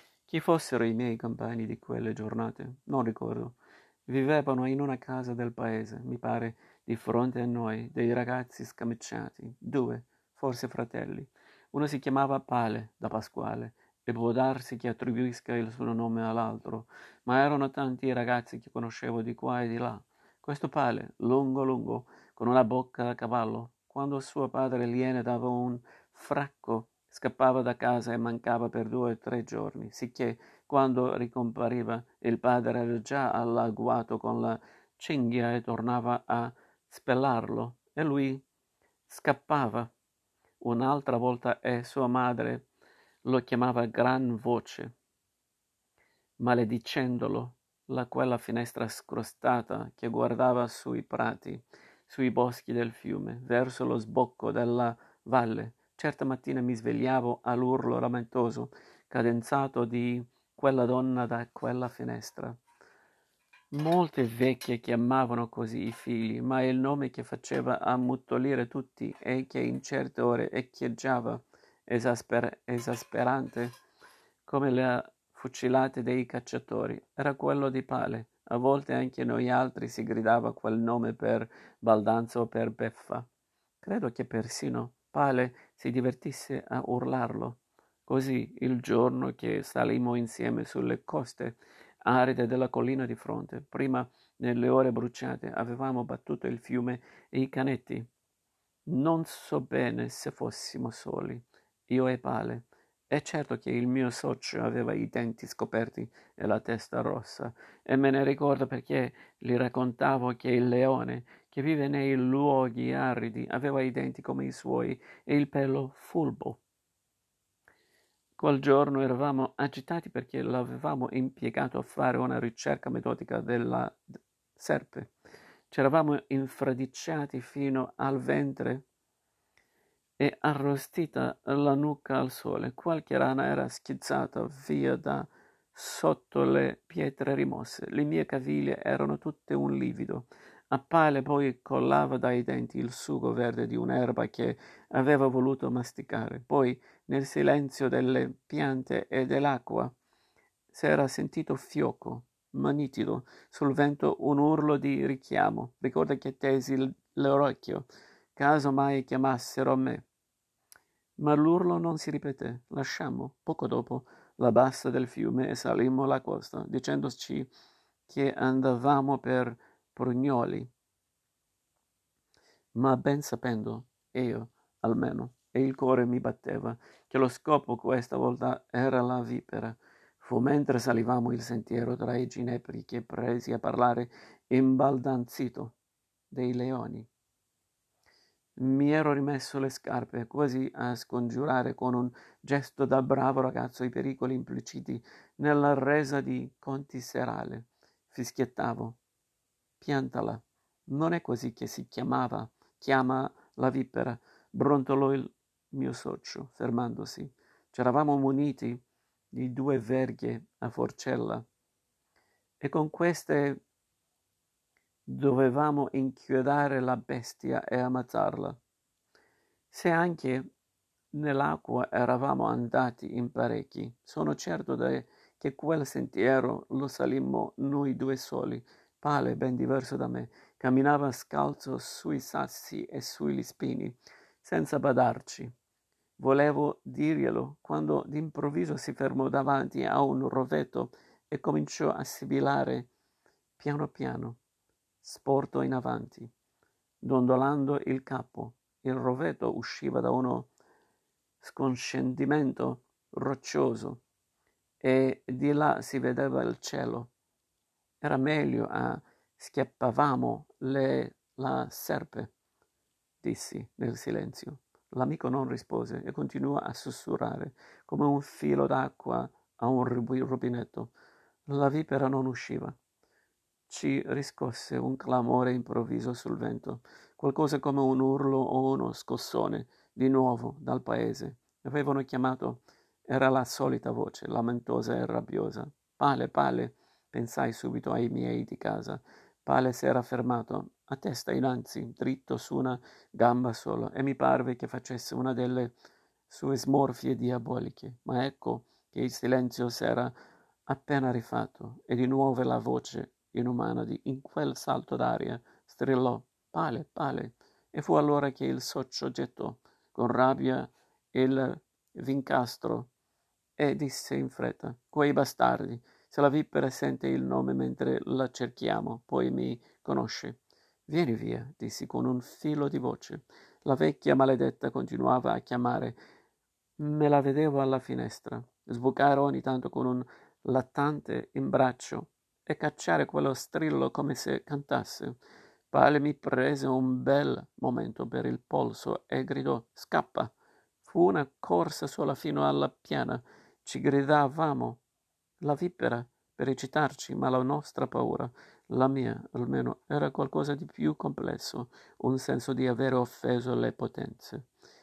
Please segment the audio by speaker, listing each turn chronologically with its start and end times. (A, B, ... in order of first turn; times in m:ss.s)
0:00.3-0:38.4 A
0:39.1-0:39.9 A
0:40.6-0:42.7 A
0:43.2-0:44.9 A
0:46.4-1:02.6 A
1:03.7-1:13.7 A
1:14.5-1:23.3 A
1:23.8-1:38.1 A
1:38.9-1:56.6 A
1:58.4-2:04.0 A
2:04.6-2:05.1 A
2:05.7-2:08.8 A
2:10.2-2:29.9 A
2:30.7-2:40.1 A
2:41.2-2:47.5 A
2:48.1-2:50.7 A
2:52.7-3:05.8 A
3:06.3-3:07.1 A
3:08.6-3:19.0 A
3:19.8-3:31.4 A
3:32.6-3:33.6 A
3:35.1-3:38.6 A
3:39.7-3:40.4 A
3:41.1-3:55.5 A
3:56.2-4:02.9 A
4:03.6-4:04.4 A
4:05.0-4:06.3 A
4:07.0-4:10.5 A
4:11.4-4:14.0 A
4:14.8-4:17.1 A
4:18.0-4:22.3 A
4:23.2-4:30.9 A
4:31.5-4:32.8 A
4:33.7-4:55.7 A
4:56.3-5:00.1 A
5:00.7-5:12.9 A
5:13.6-5:26.0 A
5:26.8-5:35.2 A
5:35.7-5:40.3 A
5:40.8-5:44.8 A
5:45.4-5:54.4 A